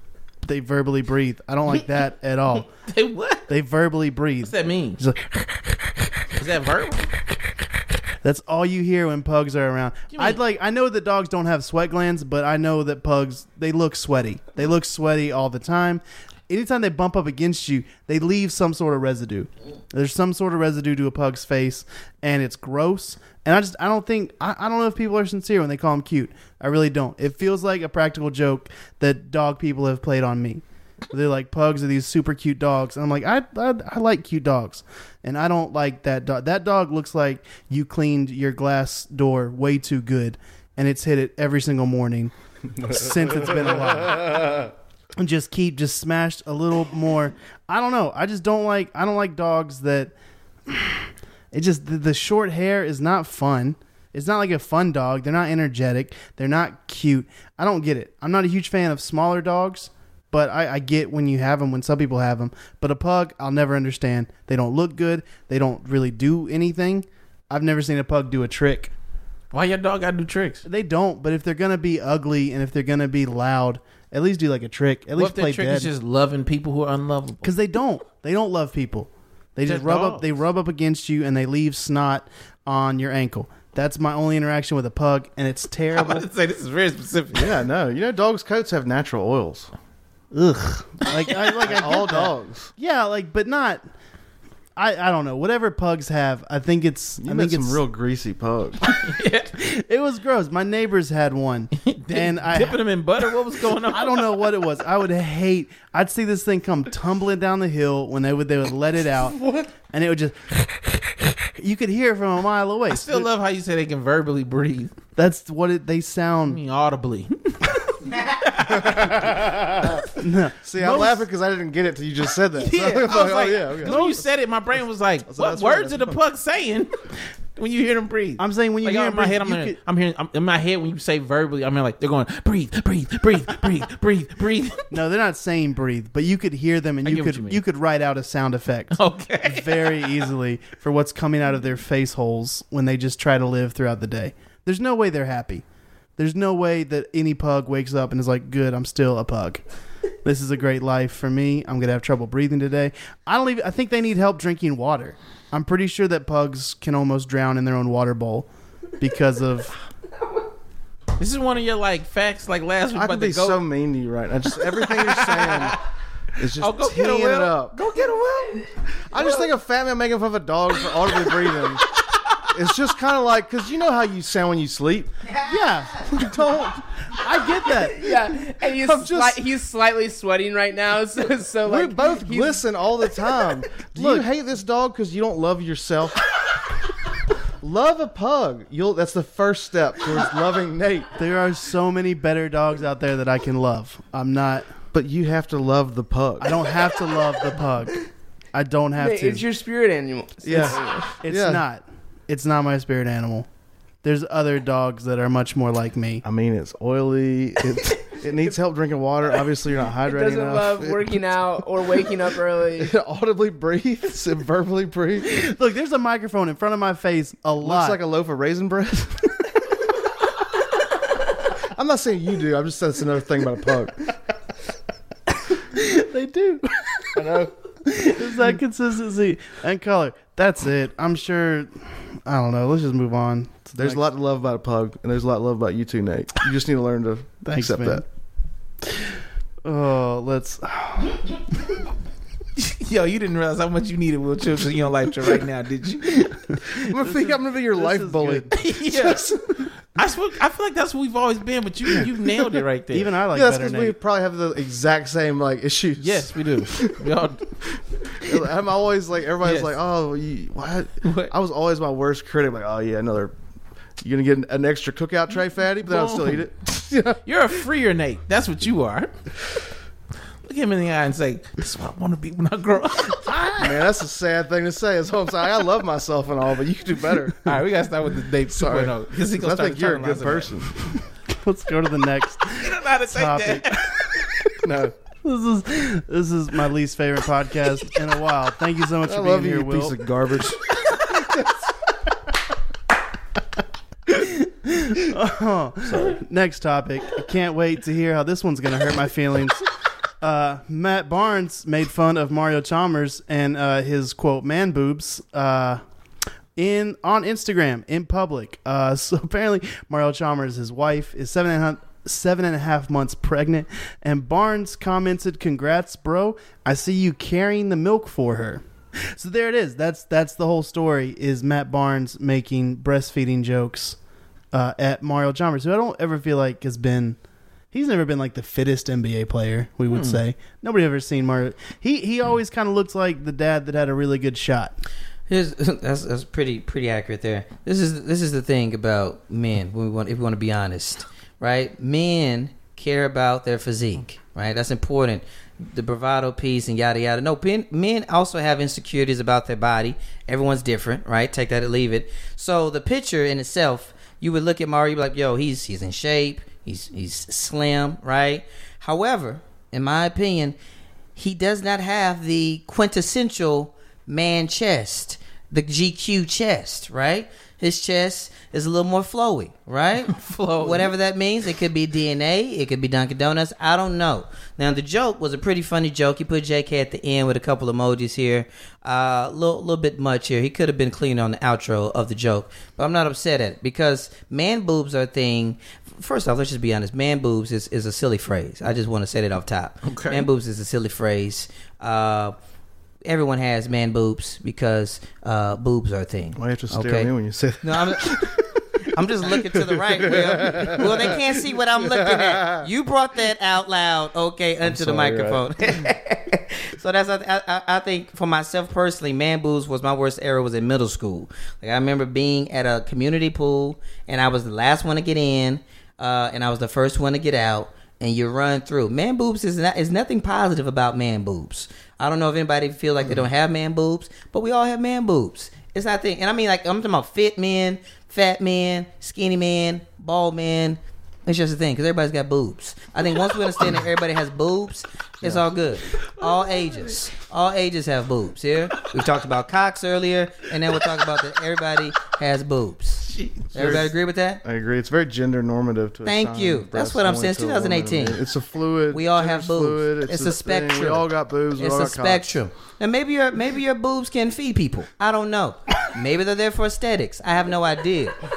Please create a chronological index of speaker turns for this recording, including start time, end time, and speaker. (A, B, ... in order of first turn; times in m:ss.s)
0:00.4-0:02.7 A
0:02.9-0:03.5 B
0:03.5-0:05.7 A
0:04.4-0:05.0 B
0:06.3-0:07.1 B
0:08.2-0:50.1 A
0:10.1-0:10.4 B
0:42.8-0:44.6 C
0:50.7-1:08.9 A
1:09.5-1:10.6 B
1:10.6-1:15.9 A
1:15.2-1:17.5 B
1:17.4-1:26.3 A
1:19.6-1:20.3 B
1:25.9-1:27.6 B
1:27.3-1:29.7 C
1:30.3-1:33.8 A
1:31.6-1:32.7 C
1:34.8-1:37.8 A
1:37.2-1:38.8 C
1:39.0-1:39.5 B
1:39.5-1:42.8 A
1:41.8-1:44.4 B
1:43.8-1:50.4 A
1:51.4-1:53.3 A
1:52.9-1:54.9 B
1:55.2-1:56.6 A
1:56.5-1:59.6 B
1:58.6-2:00.0 C
2:00.1-2:01.2 A
2:00.6-2:04.0 C
2:02.6-2:06.9 B
2:03.8-2:04.2 A
2:05.3-2:06.2 C
2:07.6-2:14.9 B
2:08.4-2:09.8 A
2:14.9-2:25.6 A
2:17.0-2:17.6 B
2:18.9-2:20.1 B
2:26.2-2:29.6 A
2:30.2-2:38.5 A
2:39.0-2:39.7 A
2:41.2-2:43.6 B
2:42.9-2:45.8 C
2:44.6-2:45.8 B
2:46.4-2:47.8 C
2:46.6-2:48.6 B
2:49.1-2:51.9 C
2:52.4-2:55.1 C
2:55.4-2:56.1 A
2:56.0-2:56.8 C
2:57.1-2:58.1 A
2:57.9-3:02.6 D
2:58.7-2:59.4 C
3:01.6-3:06.3 C
3:03.9-3:04.2 A
3:07.6-3:11.1 C
3:11.1-3:14.7 A
3:14.9-3:16.6 C
3:16.4-3:19.4 A
3:19.0-3:21.1 D
3:20.4-3:21.6 C
3:21.2-3:23.5 A
3:24.0-3:26.2 A
3:26.2-3:31.5 C
3:30.0-3:32.9 D
3:32.8-3:35.4 C
3:35.2-3:38.0 A
3:37.6-3:39.3 C
3:41.7-3:44.1 C
3:45.7-3:46.8 A
3:47.1-3:47.5 C
3:47.8-3:51.7 A
3:52.2-3:54.0 A
3:53.8-3:58.0 C
3:57.4-3:58.0 A
3:58.8-3:59.1 A
3:59.6-4:01.4 A
4:02.6-4:06.6 B
4:06.7-4:09.6 C
4:07.0-4:08.5 A
4:08.5-4:09.3 B
4:09.9-4:13.1 B
4:12.9-4:14.0 A
4:13.3-4:16.9 C
4:16.0-4:17.5 B
4:18.2-4:23.3 C
4:19.4-4:19.7 B
4:21.0-4:21.3 B
4:24.0-4:27.2 C
4:25.8-4:26.4 B
4:27.2-4:29.1 B
4:30.4-4:33.3 B
4:33.3-4:33.8 A
4:33.6-4:37.5 C
4:37.4-4:40.5 B
4:38.5-4:40.7 C
4:41.3-4:44.2 A
4:42.5-4:44.1 B
4:44.6-4:44.9 C
4:45.2-4:50.0 A
4:49.0-4:51.5 C
4:54.1-4:59.7 A
5:00.2-5:05.8 A
5:06.6-5:24.0 A
5:24.5-5:27.2 A
5:27.7-5:34.8 A
5:29.9-5:30.2 B
5:35.3-6:00.6 E
6:01.2-6:32.3 E
6:10.1-6:10.9 B
6:29.8-6:30.3 B
6:33.0-7:24.4 E
6:36.4-6:38.6 C
6:39.3-6:42.7 C
6:44.6-6:45.5 C
7:16.2-7:16.9 B
7:23.1-7:23.8 B
7:23.5-7:23.9 C
7:24.4-7:32.3 C
7:26.0-7:28.2 E
7:28.9-7:38.2 E